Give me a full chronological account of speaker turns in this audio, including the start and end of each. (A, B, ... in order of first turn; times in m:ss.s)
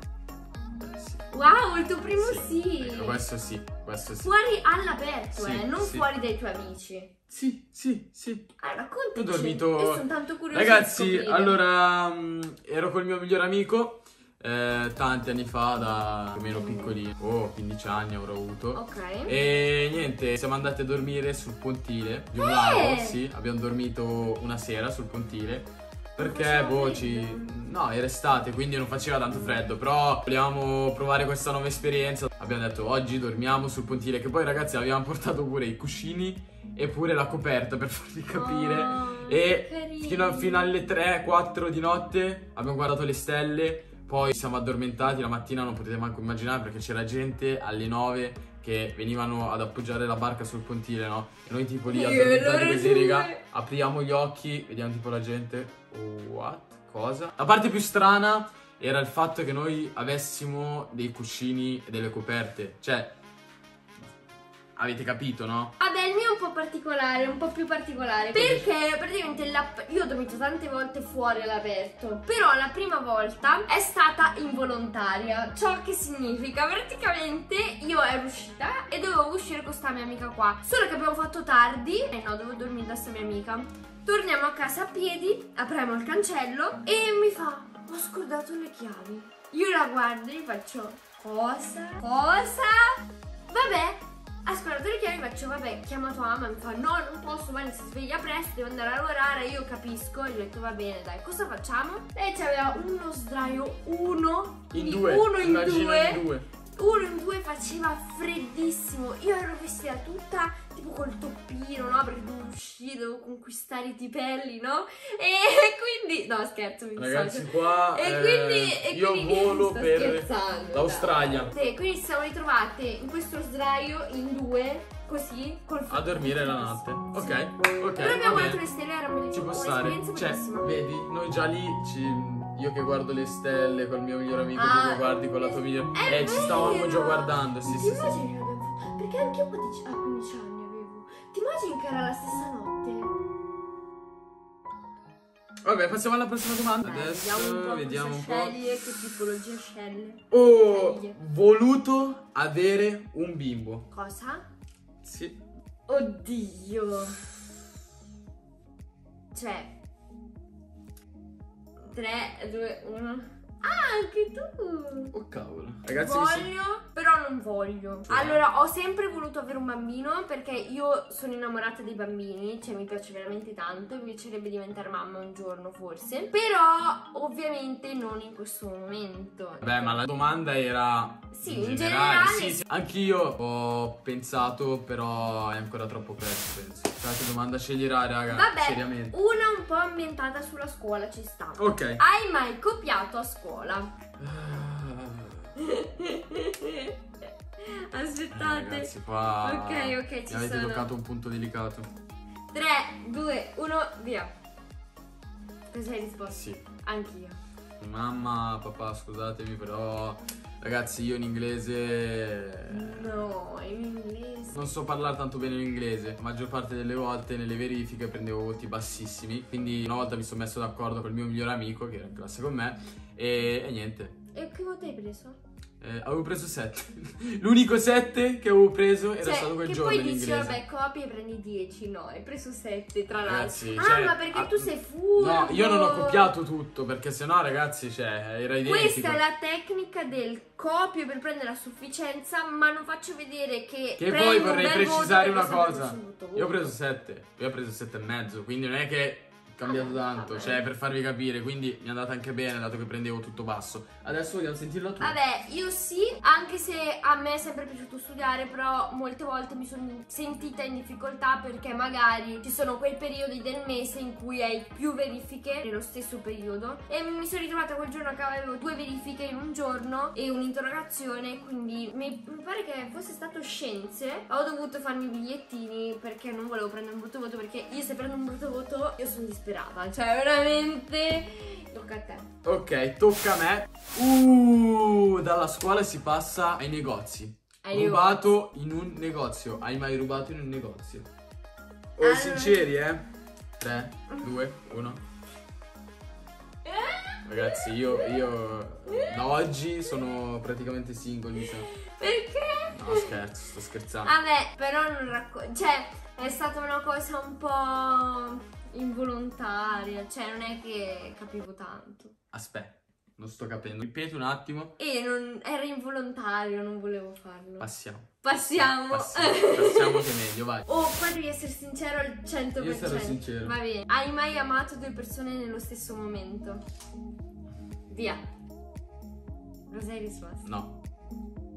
0:00.8-0:01.3 A
0:01.3-0:03.2 B
0:02.2-0:04.3 A
0:04.2-0:07.1 B
0:05.4-0:06.1 A
0:07.3-0:08.5 A
0:08.6-0:11.6 B
0:09.2-1:03.2 A
0:16.5-0:17.0 B
0:18.7-0:19.3 B
0:22.4-0:23.2 B
0:26.2-0:27.6 B
0:38.3-0:40.7 B
0:51.9-0:53.4 B
1:04.8-1:05.8 A
1:05.8-2:10.7 B
1:08.3-1:08.7 A
1:44.7-1:46.5 A
1:57.0-2:01.5 A
2:05.9-2:08.6 A
2:09.3-2:18.2 A
2:14.6-2:23.2 B
2:25.6-2:28.6 A
2:26.8-2:31.2 B
2:30.3-2:33.9 A
2:33.9-2:34.4 B
2:35.0-2:35.4 A
2:35.9-2:37.3 B
2:39.3-2:39.7 B
2:41.9-2:45.1 B
2:45.1-2:46.5 A
2:46.0-3:00.0 B
2:48.1-2:48.4 A
2:59.6-3:09.1 A
3:01.3-3:02.6 B
3:08.3-3:13.9 B
3:11.6-3:12.0 A
3:14.2-3:15.5 A
3:15.6-3:17.0 B
3:17.6-3:20.9 B
3:18.3-3:21.9 A
3:22.5-3:24.3 B
3:25.7-3:27.4 B
3:26.3-3:26.6 A
3:27.8-3:33.1 A
3:32.7-3:34.7 B
3:34.5-3:44.1 A
3:44.3-3:45.4 B
3:45.8-3:50.6 A
3:49.2-3:56.3 B
3:53.2-3:59.2 A
3:58.6-4:06.7 B
4:04.0-4:15.2 A
4:09.6-4:10.6 B
4:15.0-4:42.3 B
4:42.4-4:51.1 A
4:47.6-4:48.2 B
4:52.0-4:53.1 A
4:52.0-4:52.7 B
4:53.6-4:55.0 A
4:56.7-4:58.3 B
4:57.2-5:01.7 A
4:58.9-4:59.2 B
5:01.4-5:03.2 B
5:02.7-5:04.1 A
5:04.0-5:12.1 B
5:12.3-5:14.8 A
5:14.8-5:17.7 B
5:17.6-5:20.7 A
5:18.2-5:20.1 B
5:20.7-5:26.6 B
5:22.6-5:23.5 A
5:27.9-5:28.2 B
5:29.7-5:30.5 B
5:30.4-5:30.7 A